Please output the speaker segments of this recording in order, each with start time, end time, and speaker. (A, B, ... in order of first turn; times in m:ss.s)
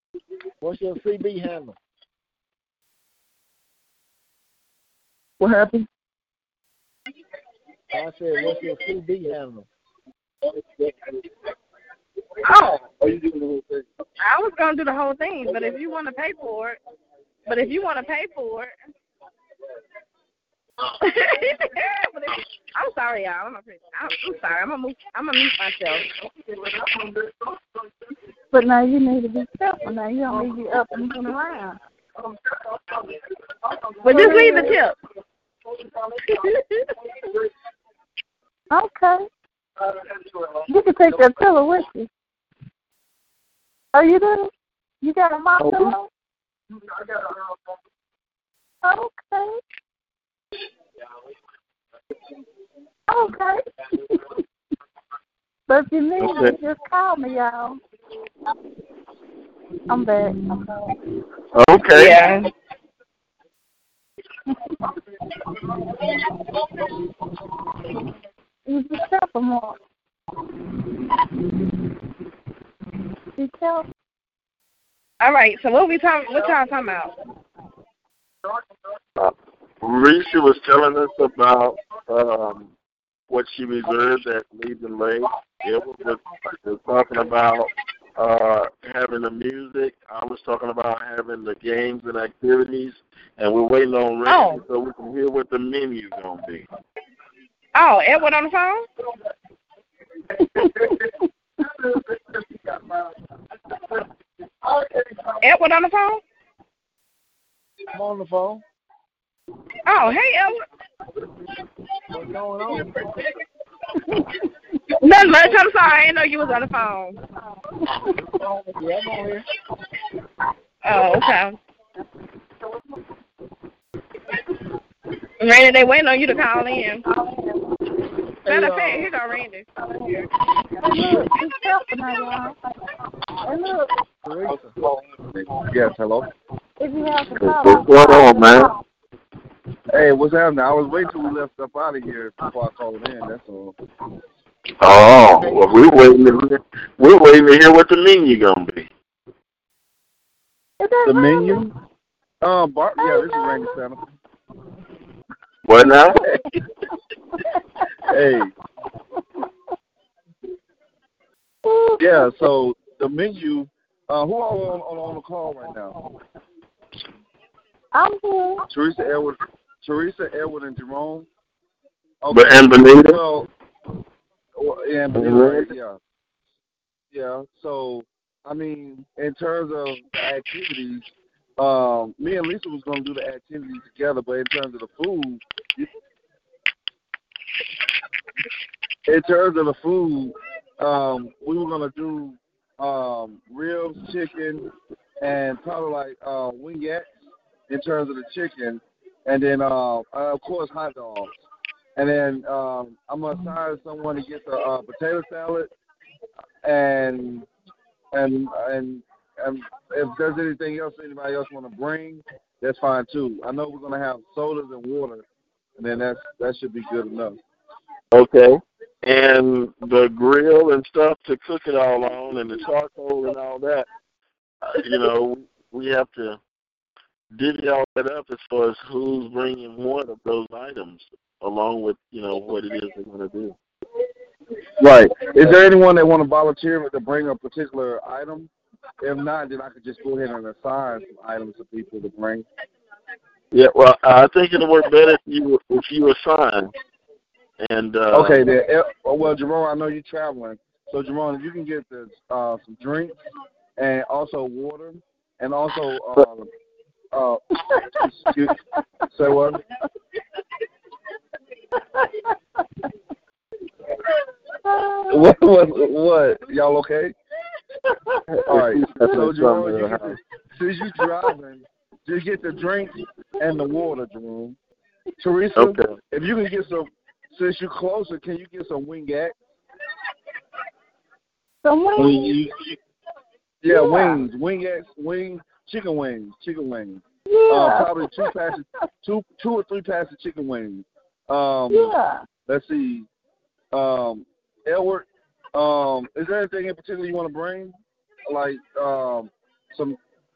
0:00.6-0:01.8 A
0:05.4-0:05.9 B
0:07.9-0:09.6 A
0:10.5-0:11.2 C
0:12.4-0:12.8 D
0:12.9-0:13.9 C
0:14.2-0:16.8 D
0:17.5-0:18.7 D
0:21.0-0:26.1 D
0:26.4-0:27.5 B
0:28.5-0:31.8 E
0:32.2-0:34.8 B
0:34.0-0:35.0 D
0:34.1-0:34.8 E
0:35.8-0:36.5 B
0:36.3-0:36.8 D
0:38.7-0:39.2 E
0:39.8-0:40.6 B
0:40.7-0:42.1 E
0:43.9-0:46.1 E
0:45.6-0:46.0 F
0:46.8-0:47.6 B
0:48.8-0:49.6 E
0:53.1-0:54.4 E
0:55.7-0:57.8 E
0:56.2-0:56.5 F
0:59.9-1:00.9 E
1:01.5-1:02.2 F
1:01.9-1:02.5 D
1:08.6-1:09.8 E
1:13.4-1:13.9 E
1:15.2-1:17.1 D
1:19.2-1:22.7 F
1:23.3-1:36.6 F
1:34.2-1:34.6 D
1:37.7-1:38.9 D
1:40.4-1:43.1 B
1:44.6-1:45.4 B
1:45.4-1:46.2 D
1:47.9-1:48.6 A
1:49.8-1:50.6 D
1:52.1-1:53.0 A
1:55.0-1:57.2 D
1:58.3-1:59.4 A
2:00.8-2:01.6 D
2:05.4-2:07.0 D
2:07.0-2:07.6 E
2:08.4-2:09.1 A
2:08.4-2:10.3 D
2:10.8-2:12.7 E
2:13.4-2:13.9 E
2:14.2-2:14.7 A
2:14.5-2:16.3 C
2:16.8-2:18.8 E
2:17.4-2:18.7 F
2:19.9-2:23.7 C
2:24.8-2:28.9 F
2:30.8-2:31.7 E
2:31.0-2:31.7 C
2:32.4-2:34.1 C
2:33.0-2:33.7 E
2:35.6-2:36.3 F
2:38.1-2:38.5 C
2:41.6-2:42.3 E
2:42.0-2:46.0 C
2:47.9-2:48.6 E
2:48.7-2:51.3 C
2:52.2-2:53.5 C
2:52.3-2:53.2 F
2:54.6-2:56.0 C
2:55.1-2:55.7 F
2:57.1-3:05.9 C
3:09.1-3:14.6 C
3:15.2-3:17.1 C
3:17.7-3:21.4 C
3:22.0-3:25.7 C
3:26.6-3:27.5 C
3:28.1-3:35.2 C
3:35.8-3:37.4 C
3:38.1-3:43.9 F
3:44.6-3:46.4 F
3:47.3-3:53.5 F
3:54.8-3:58.5 C
3:54.8-3:55.6 F
3:59.0-4:02.4 C
4:03.5-4:06.7 F
4:07.6-4:08.5 F
4:08.1-4:13.2 C
4:13.8-4:16.5 C
4:17.1-4:18.6 C
4:19.1-4:19.6 C
4:22.0-4:22.3 E
4:24.6-4:25.2 E
4:25.1-4:27.1 C
4:28.3-4:30.2 F
4:28.5-4:34.6 C
4:35.2-4:39.3 C
4:35.6-4:36.0 F
4:41.6-4:42.3 E
4:42.0-4:42.8 C
4:43.6-4:51.9 C
4:43.7-4:44.2 E
4:47.3-4:48.3 E
4:51.7-4:52.2 E
4:52.5-4:53.1 C
4:53.7-4:57.7 C
4:58.3-5:00.0 C